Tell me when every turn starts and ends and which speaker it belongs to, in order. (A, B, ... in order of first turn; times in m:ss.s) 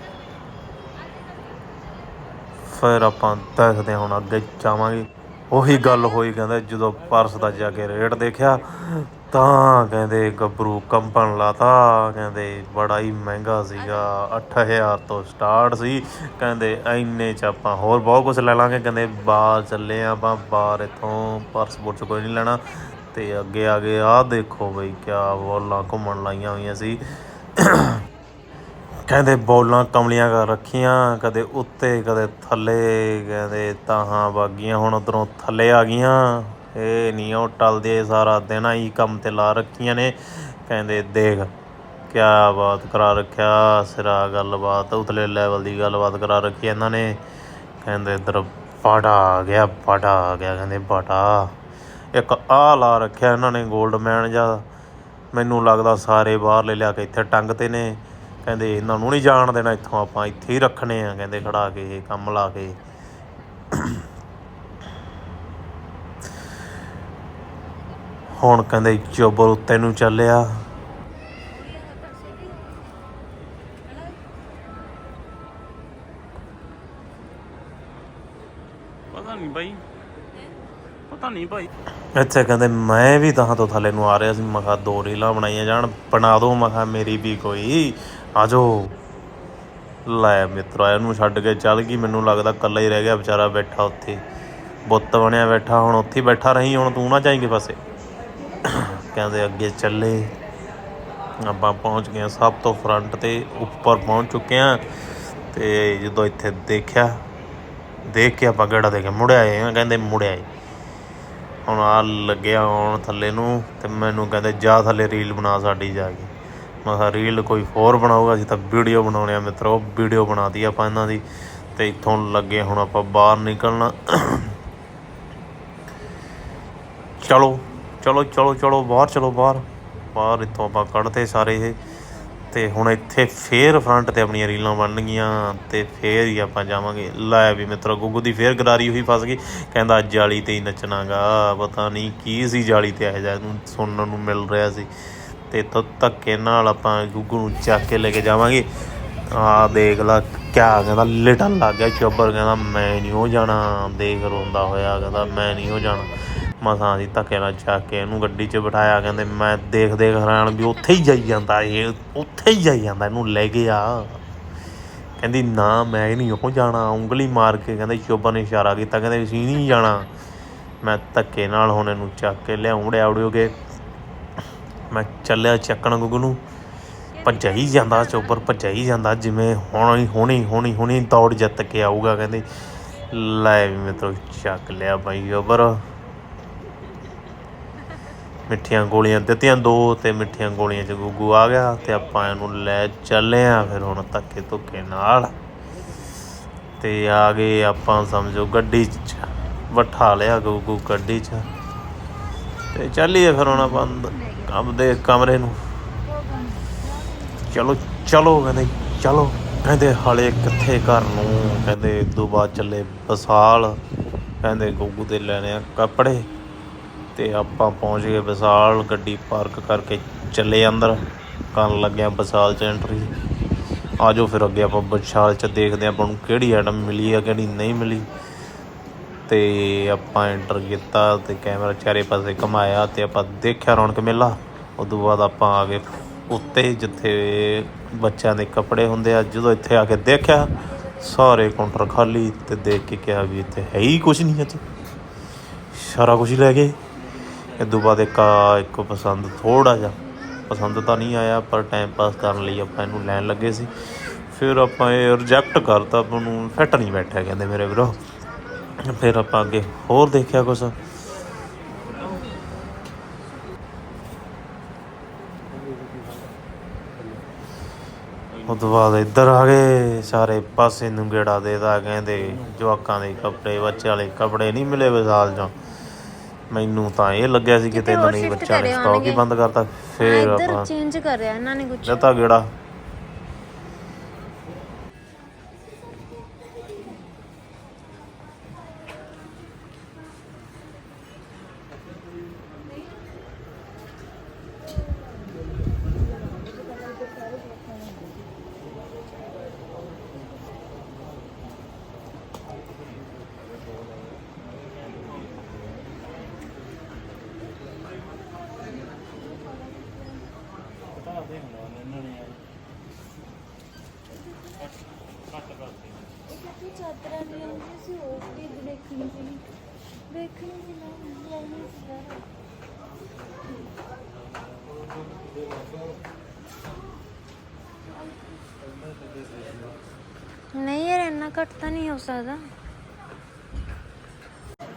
0:02.7-0:27.0 A
0:27.6-0:28.0 A
0:29.1-0:41.5 A
0:42.1-0:47.2 A
0:47.8-0:51.5 A
0:52.1-0:54.6 A
0:55.3-1:02.8 A
1:03.7-1:04.0 A
1:08.4-1:10.6 A
1:11.6-1:12.6 B
1:19.1-1:19.8 C
1:21.1-1:21.7 C
1:22.1-1:28.9 A
1:30.0-1:34.2 A
1:34.8-1:37.8 A
1:38.6-1:40.3 A
1:41.4-1:44.8 A
1:45.5-1:47.2 A
1:48.0-1:50.5 A
1:51.6-1:56.3 A
1:56.8-2:01.2 A
2:01.7-2:04.5 A
2:07.2-2:11.8 A
2:12.5-2:24.9 A
2:25.5-2:28.6 A
2:29.3-2:44.2 A
2:45.2-2:50.1 A
2:50.8-2:53.6 A
2:54.9-2:56.4 A
2:57.2-3:02.5 A
3:03.1-3:05.8 A
3:08.5-3:15.3 A
3:16.8-3:21.5 A
3:22.7-3:25.6 A
3:23.5-3:24.5 B
3:26.1-3:26.7 B
3:27.4-3:33.8 A
3:34.4-3:36.3 A
3:37.1-3:43.1 A
3:44.0-3:48.1 A
3:49.3-4:04.6 A
4:05.7-4:06.8 A
4:07.1-4:07.6 C
4:07.6-4:13.7 A
4:14.3-4:18.0 A
4:18.8-4:20.7 A
4:21.9-4:22.3 C
4:28.3-4:28.6 C
4:28.5-4:35.5 A
4:36.5-4:40.7 A
4:37.7-4:39.2 B
4:40.0-4:42.0 B
4:41.8-4:42.5 A
5:04.8-5:05.8 C
5:10.9-5:12.4 C
5:15.3-5:16.0 C
5:16.3-5:19.4 B
5:20.1-5:22.2 B
5:30.5-5:32.4 B